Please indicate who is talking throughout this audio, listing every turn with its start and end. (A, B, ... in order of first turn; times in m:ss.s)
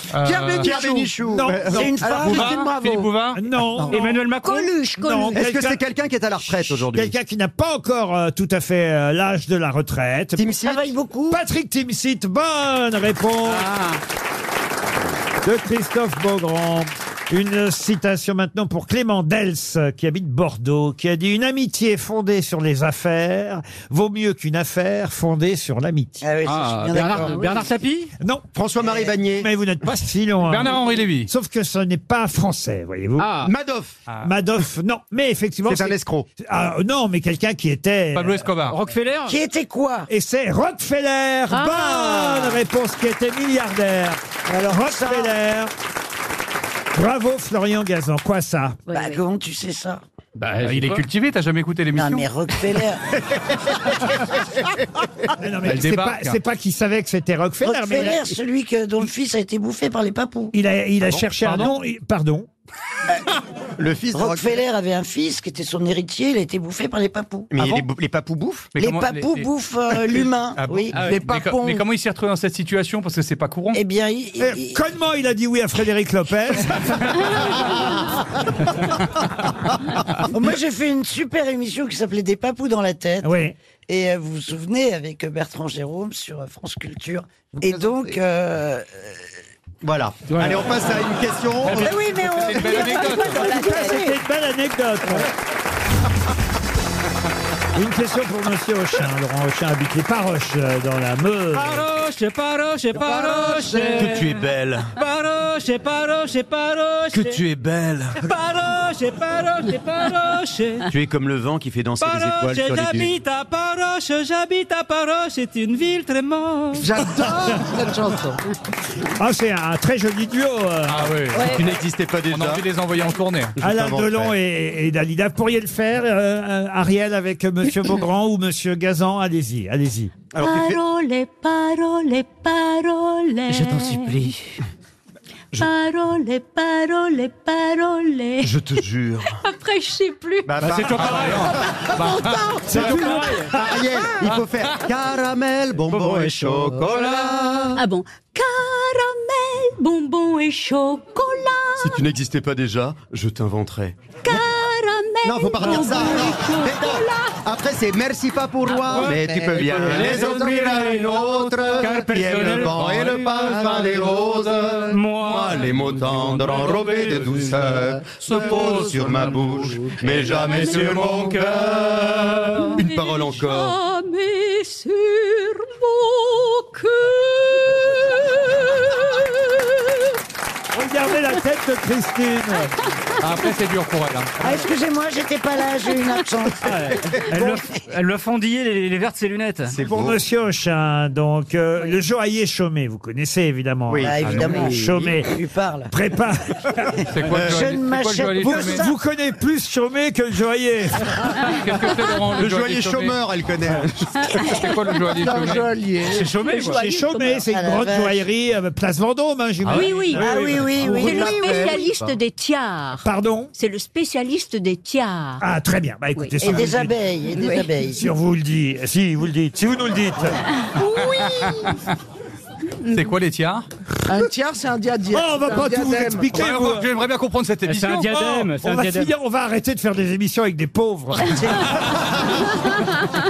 0:00.1-0:00.7 A
0:00.2-0:03.1 B
0:00.6-0:02.3 C
0:01.3-0:01.8 D
0:01.6-0:02.6 E
0:01.8-0:03.4 A
0:03.4-0:05.8 D
0:03.9-0:05.3 F
0:04.4-0:05.3 G
0:05.3-0:07.1 C
0:06.5-0:10.5 D
0:10.4-0:10.9 C
0:10.6-0:11.4 E
0:11.3-0:13.7 D
0:13.5-0:14.0 F
0:15.4-0:26.2 D
0:26.2-0:27.7 E
0:26.4-0:28.1 F
0:28.2-0:28.5 D
0:28.5-0:29.5 C
0:28.8-0:29.1 E
0:29.3-0:33.3 D
0:30.4-0:31.3 A
0:33.2-0:33.5 F
0:33.4-0:34.0 C
0:34.2-0:38.4 D
0:35.7-0:36.3 C
0:38.2-0:38.8 A
0:38.7-0:39.4 F
0:39.3-0:40.1 E
0:40.1-0:45.7 D
0:41.5-0:42.6 G
0:44.5-0:45.3 E
0:46.9-0:48.8 D
0:48.9-0:49.2 G
0:48.9-0:50.0 E
0:50.4-0:51.0 F
0:50.6-0:52.6 A
0:51.9-0:53.2 E
0:55.4-0:58.4 D
0:55.6-0:56.4 A
0:57.6-1:00.5 E
1:00.5-1:02.5 D
1:01.1-1:01.8 A
1:03.8-1:04.6 C
1:04.1-1:07.8 E
1:07.5-1:08.8 C
1:08.8-1:09.5 A
1:08.8-1:11.0 E
1:10.6-1:10.9 C
1:10.9-1:13.8 A
1:10.9-1:11.8 B
1:13.7-1:14.8 E
1:14.4-1:17.5 D
1:20.3-1:23.4 E
1:23.2-1:23.6 D
1:23.9-1:29.2 E
1:27.6-1:28.1 B
1:29.8-1:32.1 C
1:30.3-1:30.7 F
1:31.6-1:34.1 E
1:31.6-1:33.5 A
1:32.8-1:34.2 G
1:33.2-1:35.3 D
1:37.7-1:41.9 D
1:41.5-1:47.4 F
1:42.9-1:44.2 B
1:44.0-1:44.9 C
1:47.1-1:48.2 C
1:48.2-1:50.9 F
1:50.9-1:53.1 C
1:52.0-1:57.1 F
1:56.8-1:58.4 B
1:59.2-2:01.1 D
2:00.9-2:03.6 A
2:01.3-2:01.6 G
2:01.4-2:02.6 C
2:03.6-2:04.3 C
2:03.6-2:10.1 D
2:10.3-2:10.8 C
2:10.4-2:14.3 G
2:13.6-2:14.3 F
2:13.6-2:14.0 E
2:15.5-2:18.5 G
2:18.4-2:19.3 C
2:19.2-2:20.6 G
2:20.4-2:21.7 C
2:20.6-2:21.6 F
2:21.0-2:22.6 A
2:22.0-2:23.4 B
2:22.7-2:27.6 C
2:22.7-2:23.8 F
2:25.9-2:27.8 F
2:27.8-2:32.0 G
2:31.8-2:34.4 C
2:34.2-2:37.3 G
2:35.2-2:53.8 C
2:38.7-2:44.1 F
2:39.0-2:40.4 B
2:44.9-2:45.8 F
2:48.1-2:51.7 A
2:52.5-2:59.7 G
3:00.7-3:02.7 D
3:03.2-3:04.3 A
3:04.4-3:07.9 E
3:06.6-3:09.8 F
3:09.7-3:10.2 C
3:09.9-3:15.3 D
3:13.9-3:15.1 C
3:14.0-3:15.9 E
3:14.2-3:14.5 A
3:15.9-3:16.9 D
3:17.1-3:18.8 A
3:17.3-3:17.7 C
3:17.4-3:18.9 E
3:18.4-3:21.2 D
3:21.4-3:23.2 A
3:22.4-3:24.4 C
3:24.4-3:26.7 A
3:25.1-3:26.4 B
3:26.4-3:27.4 G
3:26.4-3:26.7 F
3:26.7-3:31.1 D
3:27.5-3:28.2 E
3:29.7-3:35.4 G
3:30.1-3:31.8 E
3:30.8-3:31.9 B
3:33.0-3:33.5 D
3:35.4-3:37.0 D
3:36.2-3:36.7 G
3:36.4-3:38.1 E
3:37.4-3:37.6 G
3:37.9-3:40.4 D
3:40.9-3:41.6 B
3:41.0-3:41.9 A
3:42.9-3:43.1 G
3:42.9-3:43.7 A
3:44.1-3:46.3 B
3:45.1-3:46.9 D
3:46.3-3:48.2 A
3:47.7-3:49.1 F
3:48.1-3:51.7 D
3:51.3-3:52.3 E